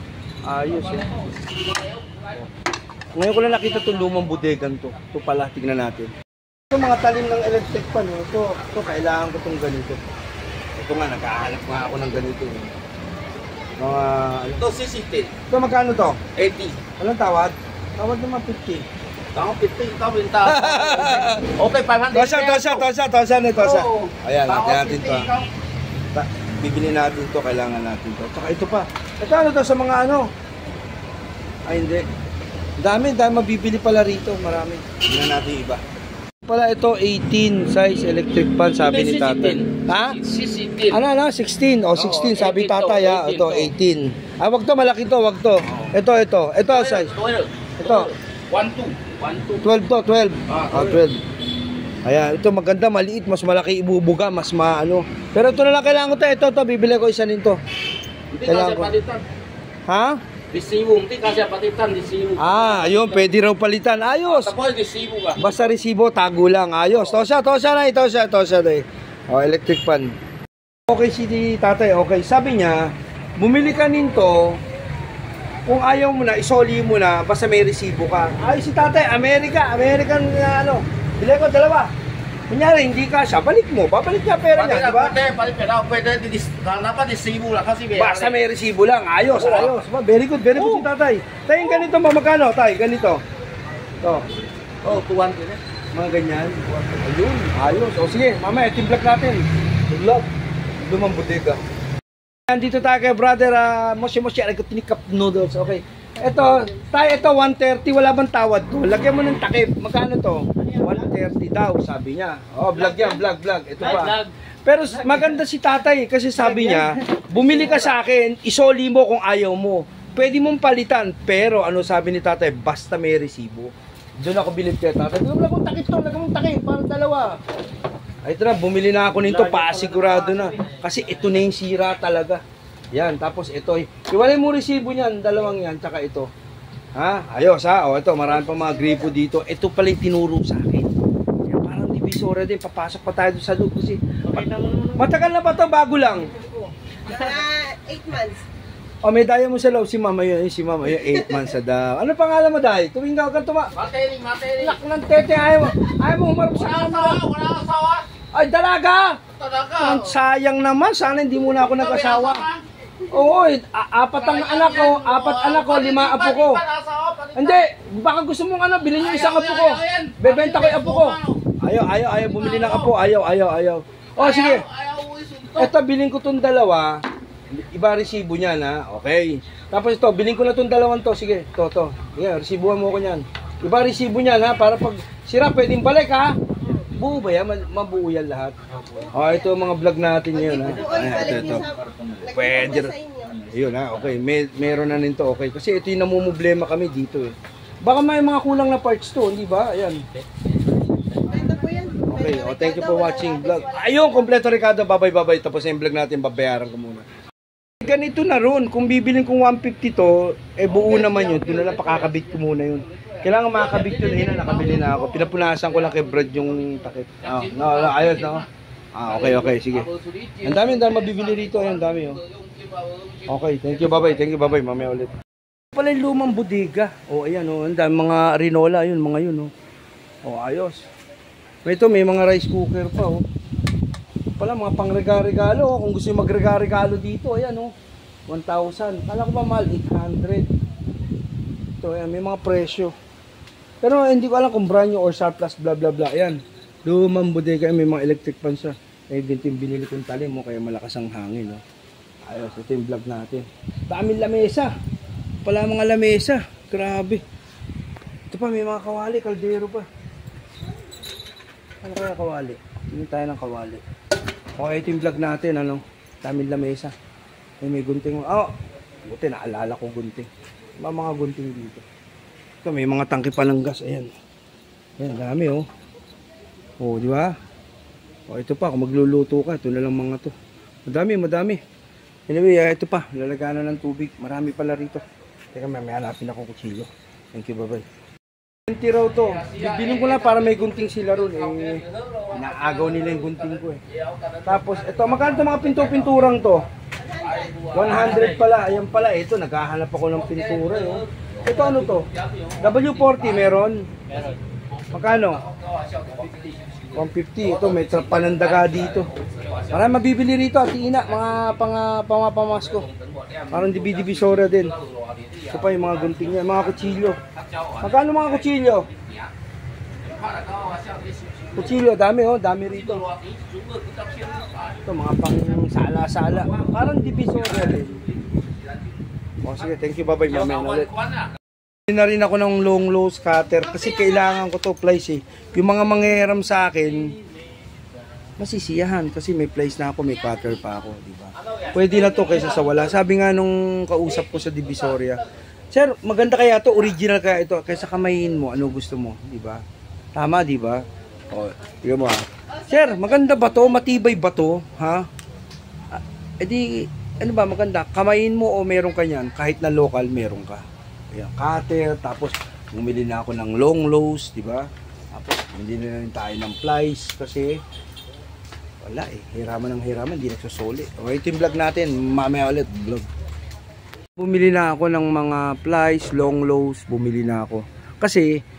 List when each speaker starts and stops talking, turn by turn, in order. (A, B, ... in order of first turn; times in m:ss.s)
0:00.5-0:01.1 A
0:03.2-0:06.1 A
0:06.7-0:10.0 A
0:10.8-0:12.7 A
0:13.8-0:14.6 A
0:14.6-0:15.3 B
0:15.5-0:16.2 A
0:16.4-0:16.8 B
0:17.0-0:18.8 A
0:19.3-0:22.8 B
0:20.4-0:21.5 A
0:22.1-0:25.3 A
0:23.6-0:25.5 B
0:26.1-0:30.3 A
0:31.7-0:32.0 A
0:32.8-0:35.8 A
0:36.4-0:40.2 A
0:38.8-0:41.0 B
0:40.9-0:47.1 A
0:41.9-0:43.7 B
0:46.7-0:49.6 B
0:47.8-0:48.1 A
0:49.6-0:51.2 A
0:50.5-0:51.0 B
0:52.0-0:57.6 A
0:58.3-0:58.9 A
0:58.4-0:59.2 B
0:59.9-1:00.2 A
1:00.5-1:03.2 B
1:02.4-1:04.5 A
1:04.3-1:05.4 B
1:05.3-1:10.1 A
1:10.9-1:14.6 A
1:15.6-1:21.9 A
1:22.5-1:25.2 A
1:24.6-1:28.4 B
1:27.9-1:33.2 A
1:29.3-1:29.7 B
1:30.5-1:30.9 B
1:34.0-1:34.2 A
1:34.8-1:35.6 B
1:35.9-1:40.3 A
1:40.8-1:41.6 A
1:42.5-2:07.4 A
1:53.8-1:54.3 B
1:56.5-1:56.8 B
2:08.2-2:12.4 A
2:12.9-2:16.3 A
2:17.0-2:20.9 A
2:21.4-2:26.3 A
2:27.1-2:28.4 C
2:29.0-2:33.7 A
2:33.8-2:34.8 B
2:34.6-2:37.2 A
2:36.5-2:38.0 B
2:38.3-2:39.2 A
2:39.3-2:40.1 B
2:39.7-2:42.4 A
2:41.7-2:42.6 B
2:43.1-2:46.6 A
2:44.2-2:47.6 B
2:47.4-2:54.6 A
2:49.0-2:51.4 B
2:52.3-2:52.9 B
2:54.2-2:55.7 B
2:55.6-3:06.3 A
3:06.9-3:08.6 A
3:09.1-3:20.0 A
3:10.7-3:11.7 C
3:12.3-3:13.3 C
3:21.3-3:23.6 C
3:22.1-3:27.0 A
3:27.8-3:39.9 A
3:30.7-3:32.2 B
3:33.4-3:35.7 B
3:37.2-3:38.5 B
3:39.1-3:44.3 B
3:40.4-3:42.2 A
3:43.3-3:45.1 A
3:45.7-3:49.5 A
3:50.2-3:50.8 A
3:51.6-3:53.2 A
3:54.4-3:57.7 A
3:58.3-4:00.5 A
4:01.8-4:02.9 A
4:03.8-4:11.6 A
4:12.2-4:14.7 A
4:15.4-4:17.2 A
4:18.3-4:19.8 A
4:21.8-4:23.8 A
4:24.6-4:26.9 A
4:27.6-4:28.5 A
4:29.0-4:31.8 A
4:32.6-4:34.1 A
4:35.0-4:35.7 A
4:36.8-4:37.3 A
4:38.3-4:40.3 A
4:40.9-4:41.6 A
4:42.3-4:47.8 A
4:48.7-4:53.8 A
4:49.4-4:53.4 B
4:54.0-4:55.9 B
4:54.4-4:56.6 A
4:57.2-4:58.3 B
4:57.7-5:02.1 A
5:00.3-5:03.2 B
5:02.6-5:03.9 A
5:04.1-5:07.0 B
5:04.9-5:05.4 A
5:06.9-5:09.1 A
5:07.5-5:09.7 B
5:09.7-5:12.8 A
5:13.0-5:16.2 B
5:13.5-5:14.7 A
5:15.5-5:17.2 A
5:17.4-5:18.3 B
5:17.8-5:18.9 A
5:20.0-5:21.7 B
5:21.6-5:23.1 A
5:23.0-5:24.6 B
5:24.8-5:28.0 A
5:29.4-5:30.9 A
5:31.9-5:37.1 A
5:38.4-5:49.6 A
5:50.1-5:55.1 A
5:55.9-6:07.6 A
6:08.8-6:13.1 A
6:14.2-6:18.4 A